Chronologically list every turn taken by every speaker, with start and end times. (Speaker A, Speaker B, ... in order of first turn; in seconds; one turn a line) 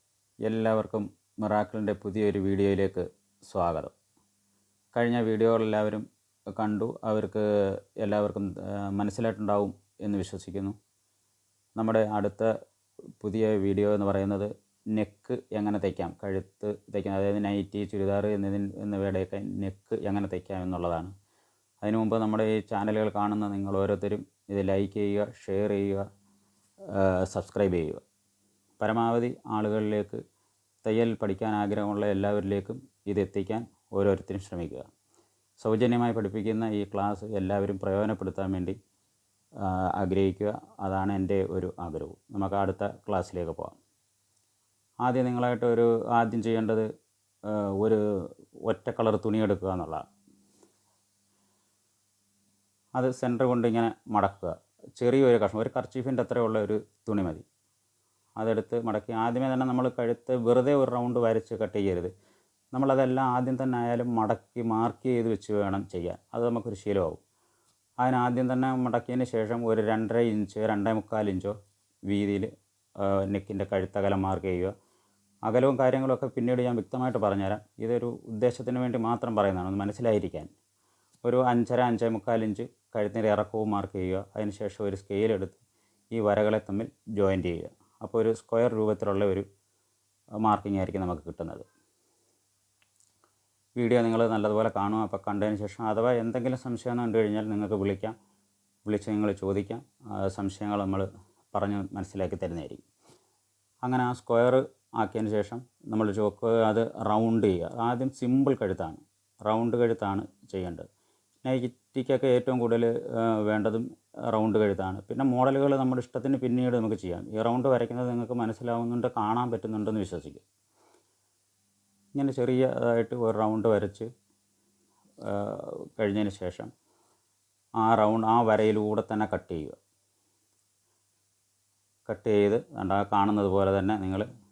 Speaker A: 0.4-3.9
Speaker A: 4.9-10.8
Speaker A: 11.8-12.5
Speaker A: 13.2-21.1
Speaker A: 21.8-26.1
Speaker A: 26.9-28.0
Speaker A: 28.8-30.2
Speaker A: 30.8-34.9
Speaker A: 35.6-38.8
Speaker A: 39.6-43.8
Speaker A: 45.0-46.9
Speaker A: 47.4-50.0
Speaker A: 52.9-57.4
Speaker A: 58.4-62.1
Speaker A: 62.7-67.2
Speaker A: 68.0-71.5
Speaker A: 72.1-74.7
Speaker A: 75.4-80.5
Speaker A: 81.2-85.6
Speaker A: 86.1-89.5
Speaker A: 90.4-91.6
Speaker A: 93.8-98.2
Speaker A: 98.8-102.8
Speaker A: 103.8-110.8
Speaker A: 111.4-120.4
Speaker A: 122.1-124.1
Speaker A: 125.2-126.7
Speaker A: 127.8-129.8
Speaker A: 132.1-134.3